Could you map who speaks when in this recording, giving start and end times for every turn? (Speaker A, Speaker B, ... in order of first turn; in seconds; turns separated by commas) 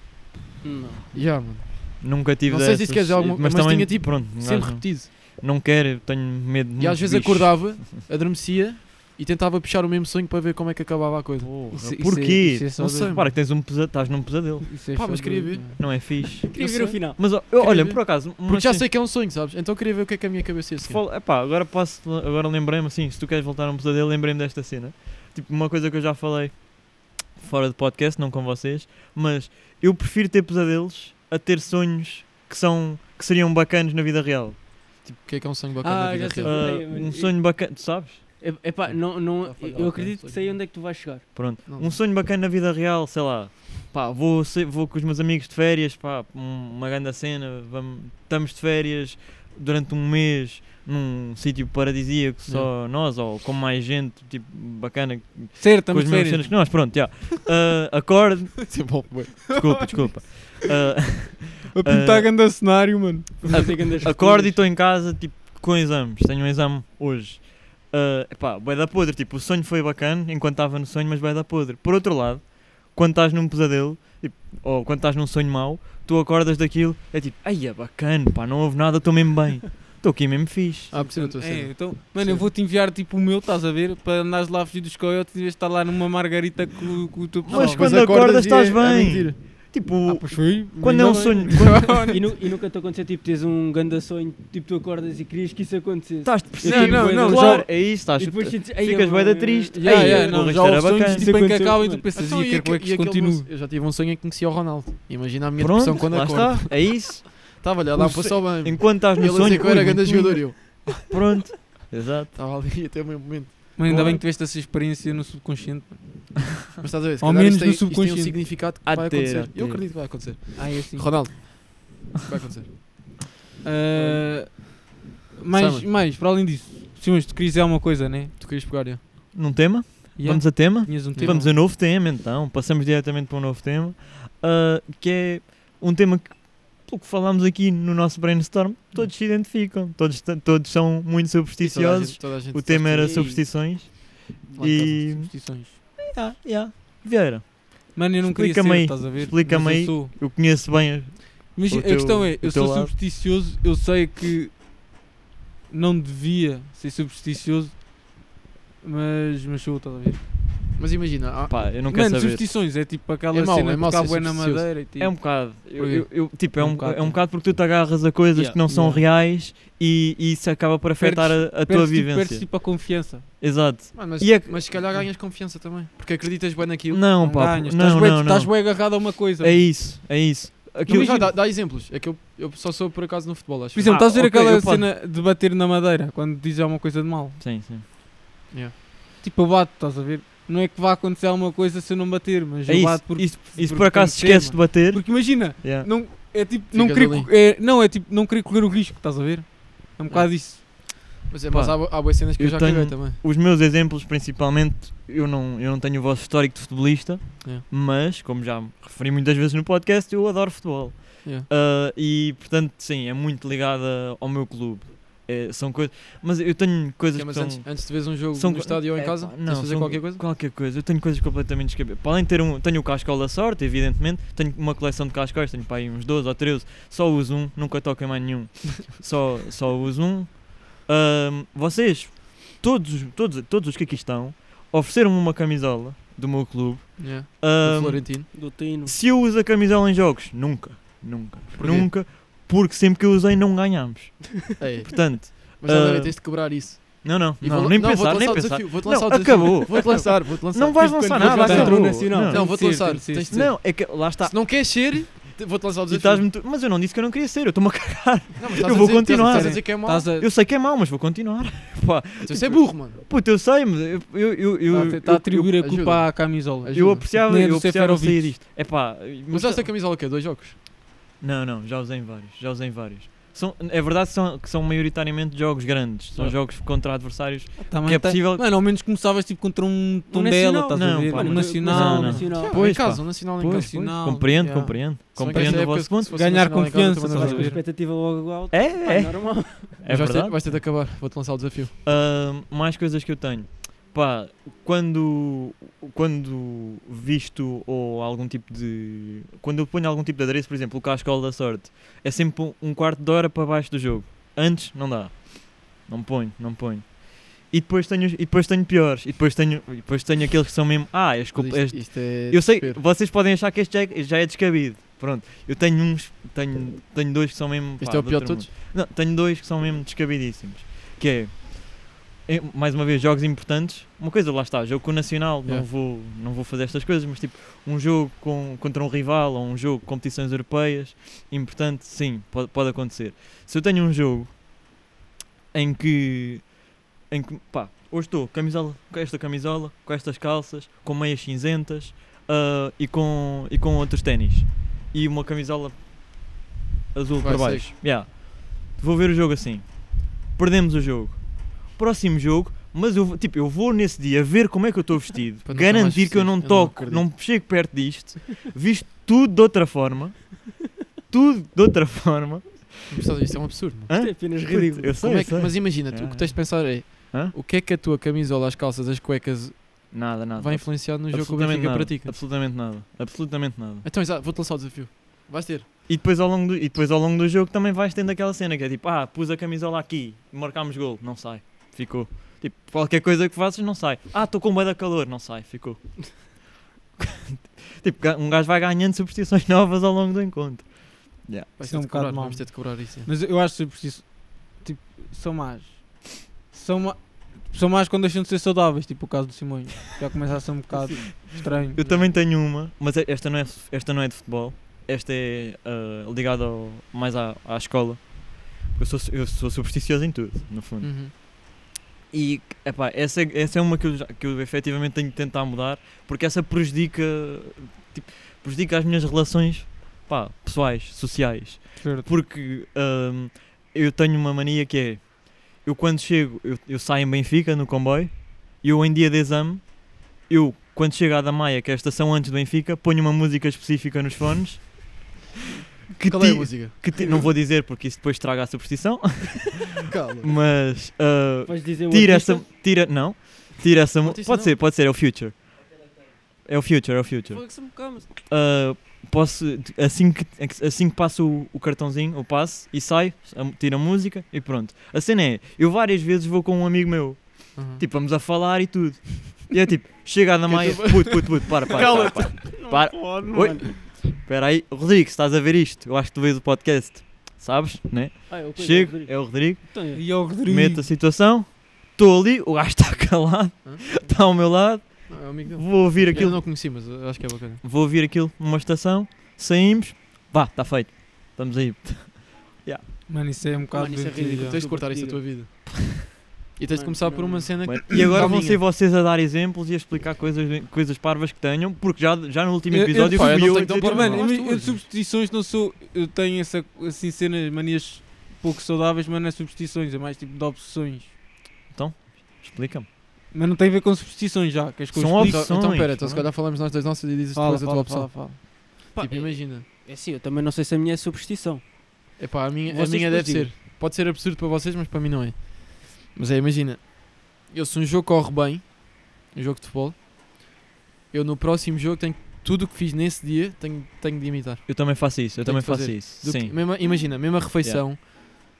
Speaker A: 0.6-1.0, Speaker B: 1.1-5.1, Speaker C: 2.0-7.9, Speaker B: 6.8-11.5, Speaker C: 11.4-14.7, Speaker D: 11.7-13.3, Speaker B: 12.8-13.3, Speaker D: 14.7-15.9, Speaker B: 14.9-15.8, Speaker C: 15.8-18.9, Speaker A: 16.5-17.2, Speaker B: 17.4-21.0, Speaker C: 20.8-34.6, Speaker B: 35.0-36.7, Speaker A: 35.8-37.5, Speaker C: 36.4-38.2, Speaker A: 38.4-41.3, Speaker B: 38.9-40.6, Speaker C: 41.3-62.4, Speaker B: 41.7-42.0, Speaker D: 55.6-56.7, Speaker B: 58.7-59.9, Speaker D: 59.6-60.1, Speaker D: 61.7-64.0, Speaker A: 63.5-64.6, Speaker C: 63.5-80.9, Speaker B: 80.9-82.5, Speaker D: 81.0-88.1, Speaker C: 87.4-92.0, Speaker B: 87.5-89.4, Speaker D: 90.1-92.2, Speaker B: 91.5-92.2, Speaker A: 92.1-100.5, Speaker C: 96.2-101.3, Speaker D: 96.6-97.7, Speaker D: 99.8-103.5, Speaker A: 101.1-102.1, Speaker B: 102.1-110.6, Speaker C: 105.6-112.3, Speaker B: 112.3-114.2, Speaker D: 113.8-116.5, Speaker C: 113.8-114.2, Speaker B: 116.8-122.7, Speaker D: 117.2-118.4, Speaker C: 118.8-120.0, Speaker D: 120.6-121.2, Speaker D: 123.6-128.3, Speaker B: 123.9-124.5, Speaker B: 125.5-125.9, Speaker B: 128.4-129.0, Speaker C: 129.3-152.9, Speaker D: 130.2-131.6, Speaker B: 131.1-131.4, Speaker B: 141.6-143.3, Speaker A: 143.0-143.4, Speaker D: 144.6-145.8, Speaker D: 147.9-150.2, Speaker D: 151.5-154.6, Speaker D: 155.7-157.9, Speaker D: 158.8-160.2, Speaker B: 160.8-161.7, Speaker C: 161.5-162.5, Speaker D: 161.9-167.2, Speaker B: 163.3-164.7, Speaker C: 165.0-175.0, Speaker D: 168.7-169.0, Speaker D: 171.0-173.3, Speaker B: 173.9-177.0, Speaker C: 176.9-181.3, Speaker D: 177.2-179.7, Speaker D: 180.9-181.3, Speaker B: 180.9-184.0, Speaker D: 183.7-187.4, Speaker C: 183.8-184.9, Speaker C: 187.4-187.8, Speaker D: 189.2-200.7, Speaker C: 192.7-195.9, Speaker B: 196.7-197.3, Speaker B: 201.3-203.2, Speaker C: 201.5-254.9, Speaker B: 217.1-220.2, Speaker B: 237.0-238.3, Speaker A: 238.3-238.9, Speaker B: 241.6-241.9, Speaker B: 244.6-256.3, Speaker A: 251.1-252.4, Speaker D: 251.3-253.4, Speaker C: 255.9-265.6, Speaker B: 258.4-260.1, Speaker D: 259.2-260.3, Speaker B: 262.2-263.0, Speaker D: 264.7-268.4, Speaker B: 264.7-267.1, Speaker C: 266.7-269.7, Speaker B: 269.3-270.6, Speaker C: 271.2-278.4, Speaker D: 277.6-282.6, Speaker A: 280.1-282.6, Speaker C: 280.8-286.4, Speaker B: 282.4-283.9, Speaker D: 283.4-287.6, Speaker B: 285.1-287.6, Speaker A: 287.1-289.8, Speaker C: 287.1-287.6, Speaker C: 288.5-290.6, Speaker B: 289.9-291.7, Speaker C: 291.8-334.4, Speaker B: 311.3-312.8, Speaker B: 317.8-318.5, Speaker C: 335.5-336.6, Speaker C: 337.1-345.8, Speaker C: 346.9-363.2, Speaker B: 347.2-347.7, Speaker B: 355.4-357.1, Speaker B: 362.9-363.9, Speaker C: 363.9-367.3, Speaker A: 363.9-365.0, Speaker B: 365.0-372.2, Speaker C: 369.9-373.9, Speaker B: 373.8-375.7, Speaker C: 375.9-386.4, Speaker C: 387.0-391.5, Speaker B: 391.6-393.1, Speaker D: 391.7-401.8, Speaker C: 401.7-411.1, Speaker B: 401.8-402.1, Speaker B: 410.8-411.1, Speaker C: 412.1-435.1, Speaker D: 421.8-422.1, Speaker C: 435.9-445.6, Speaker B: 436.1-437.2, Speaker B: 439.9-440.4, Speaker A: 441.5-442.5, Speaker B: 444.0-444.6, Speaker C: 446.4-476.4, Speaker A: 447.3-448.1, Speaker B: 457.6-457.8, Speaker B: 460.5-462.3, Speaker A: 461.7-463.7, Speaker A: 468.3-470.1, Speaker D: 469.9-470.9, Speaker B: 473.6-473.9, Speaker B: 475.1-477.6, Speaker C: 477.6-482.9, Speaker D: 483.1-484.6, Speaker A: 483.7-485.2, Speaker B: 484.4-485.5, Speaker B: 486.6-488.6, Speaker A: 486.7-487.6, Speaker C: 487.6-494.8, Speaker D: 492.7-501.1, Speaker B: 493.1-494.8, Speaker C: 501.7-502.9, Speaker D: 503.3-505.5, Speaker C: 504.9-506.3, Speaker B: 505.2-509.6, Speaker D: 507.3-508.4, Speaker A: 508.9-511.7, Speaker B: 512.2-520.0, Speaker A: 512.7-513.5, Speaker B: 521.1-528.1, Speaker C: 524.7-526.6